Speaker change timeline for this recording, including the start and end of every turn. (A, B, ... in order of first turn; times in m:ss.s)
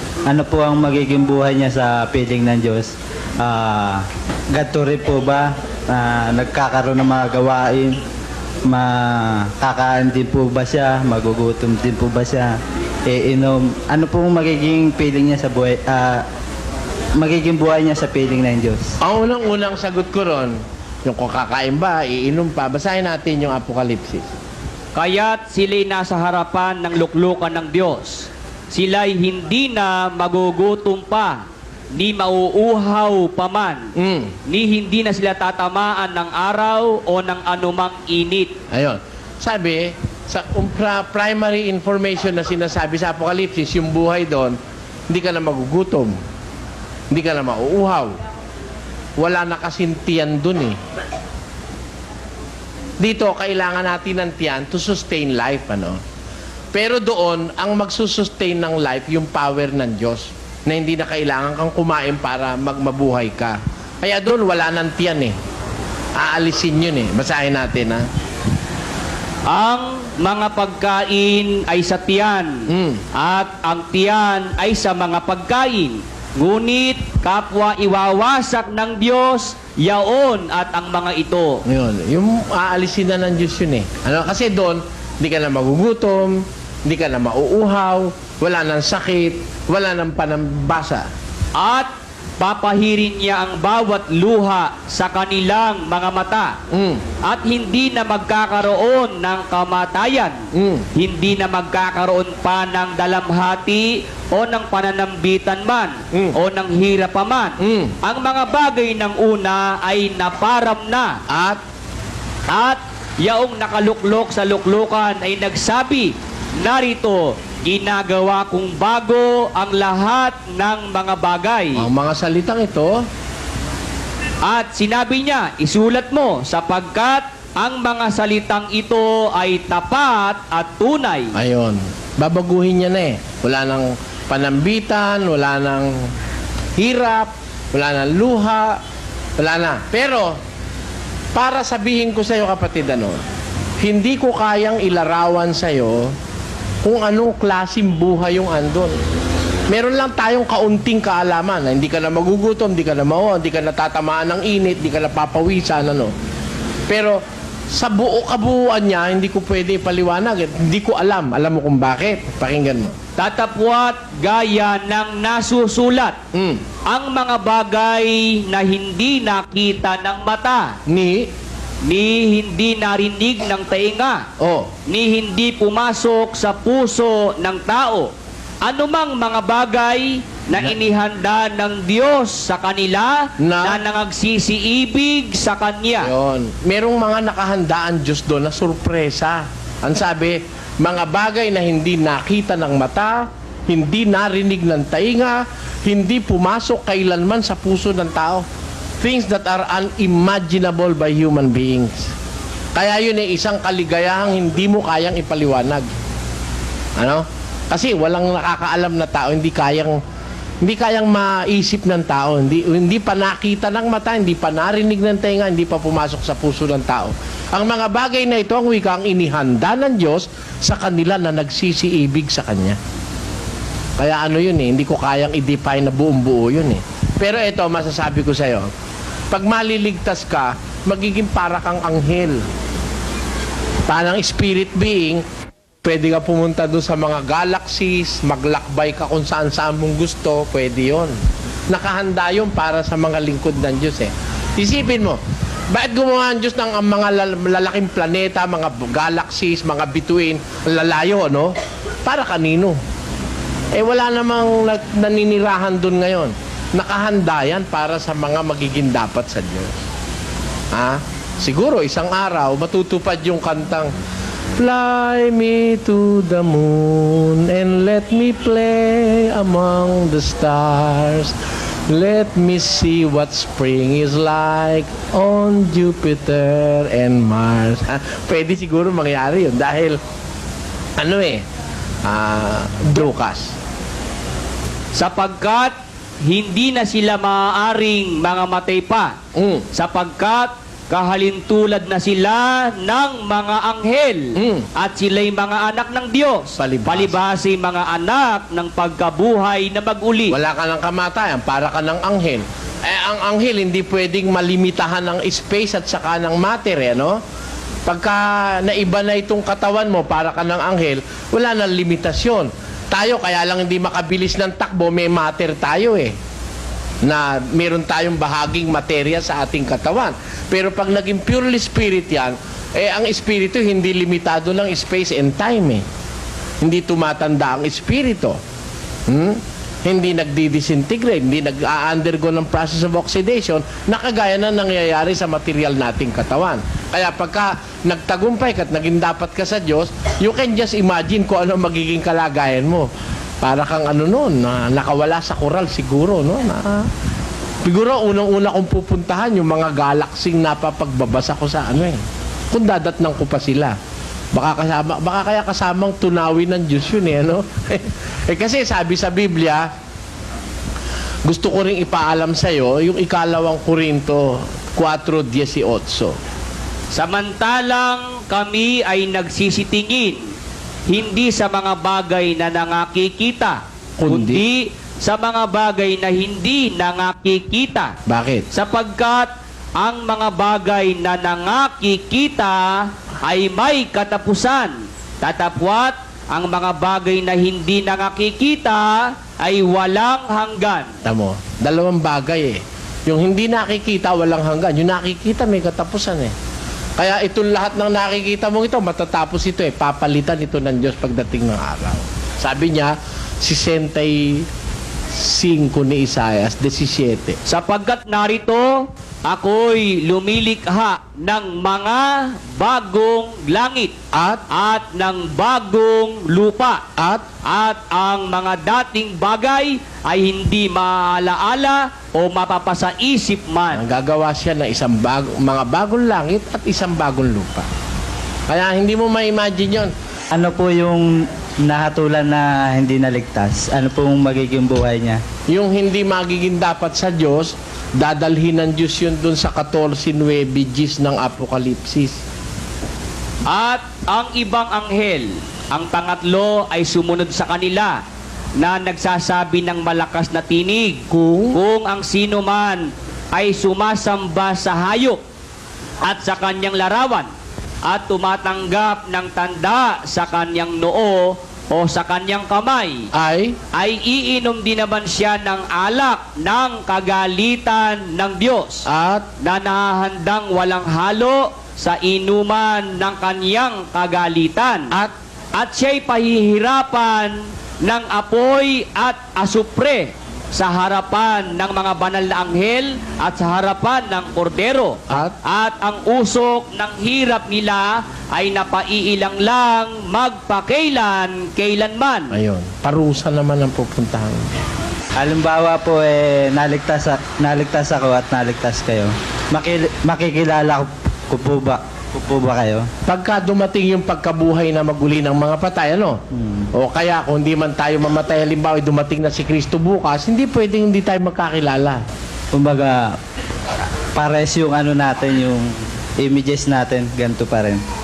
0:00.3-0:08.0 A
0:08.7-0:16.2 A
0:17.2-0:19.0 A
0:19.0-0:24.3 B
0:25.0-0:33.9 C
0:34.0-0:34.4 B
0:34.5-0:38.6 C
0:38.7-0:44.6 B
0:45.1-0:46.1 B
0:47.1-0:48.1 B
0:49.2-0:50.8 B
0:53.0-0:56.0 B
0:56.7-1:05.4 B
1:06.2-1:08.0 B
1:09.5-1:21.6 C
1:12.7-1:13.0 B
1:21.7-1:31.1 B
1:31.6-1:36.6 C
1:36.7-1:37.0 B
1:37.2-1:40.4 C
1:40.5-1:40.9 B
1:41.0-1:51.2 C
1:47.6-1:48.0 B
1:51.3-1:51.6 B
1:52.5-2:01.9 C
2:01.8-2:03.0 B
2:04.4-2:11.4 C
2:11.3-2:15.9 B
2:16.8-2:18.8 B
2:19.4-2:20.4 B
2:21.3-2:23.2 B
2:23.8-2:26.1 B
2:26.8-2:29.0 B
2:29.7-2:36.1 B
2:36.9-2:37.2 B
2:37.7-2:43.0 B
2:43.2-2:46.2 C
2:46.3-2:46.6 B
2:46.9-2:50.8 C
2:50.9-2:51.3 B
2:51.9-2:54.3 C
2:54.4-2:54.7 B
2:54.9-2:58.1 C
2:58.6-3:06.1 C
3:03.4-3:03.8 B
3:06.0-3:18.4 B
3:19.0-3:22.1 B
3:22.8-3:25.9 B
3:27.0-3:30.0 B
3:30.6-3:42.8 B
3:44.0-3:48.7 B
3:49.3-3:52.4 B
3:53.9-3:55.2 B
3:55.8-4:01.1 B
4:01.7-4:11.5 B
4:12.0-4:12.8 B
4:13.7-4:19.7 B
4:20.7-4:23.9 B
4:24.6-4:31.4 B
4:31.9-4:40.0 B
4:41.0-4:41.4 B
4:42.0-4:43.5 B
4:45.0-4:49.2 C
4:49.4-4:49.7 B
4:49.7-5:00.4 C
4:54.4-4:54.7 B
4:56.6-4:57.2 B
5:00.3-5:07.2 B
5:07.9-5:16.1 B
5:17.0-5:25.8 B
5:26.6-5:28.4 B
5:29.1-5:42.9 B
5:43.4-5:46.9 B
5:47.6-5:53.8 B
5:54.3-5:59.7 B
6:01.2-6:06.2 B
6:06.9-6:10.2 C
6:10.9-6:18.0 C
6:14.0-6:14.4 B
6:18.1-6:18.5 B
6:18.5-6:30.9 C
6:31.0-6:36.3 B
6:37.0-6:44.5 B
6:45.1-6:47.4 B
6:47.5-6:54.0 C
6:54.1-6:54.4 B
6:54.5-6:56.8 C
6:57.0-6:57.3 B
6:57.4-7:03.8 C
7:03.7-7:07.7 B
7:08.5-7:09.9 B
7:10.3-7:15.2 A
7:15.5-7:22.2 B
7:23.5-7:28.0 C
7:28.6-7:35.2 C
7:31.1-7:31.6 B
7:36.0-7:37.3 C
7:37.9-7:43.1 C
7:43.1-7:43.6 B
7:43.7-7:48.9 C
7:48.9-7:49.3 B
7:49.4-7:55.0 C
7:55.6-8:12.4 C
8:05.1-8:05.4 B
8:12.3-8:14.5 B
8:15.2-8:22.9 A
8:23.1-8:26.2 B
8:26.3-8:26.7 A
8:26.7-8:32.0 B
8:32.5-8:33.2 A
8:34.2-8:37.8 A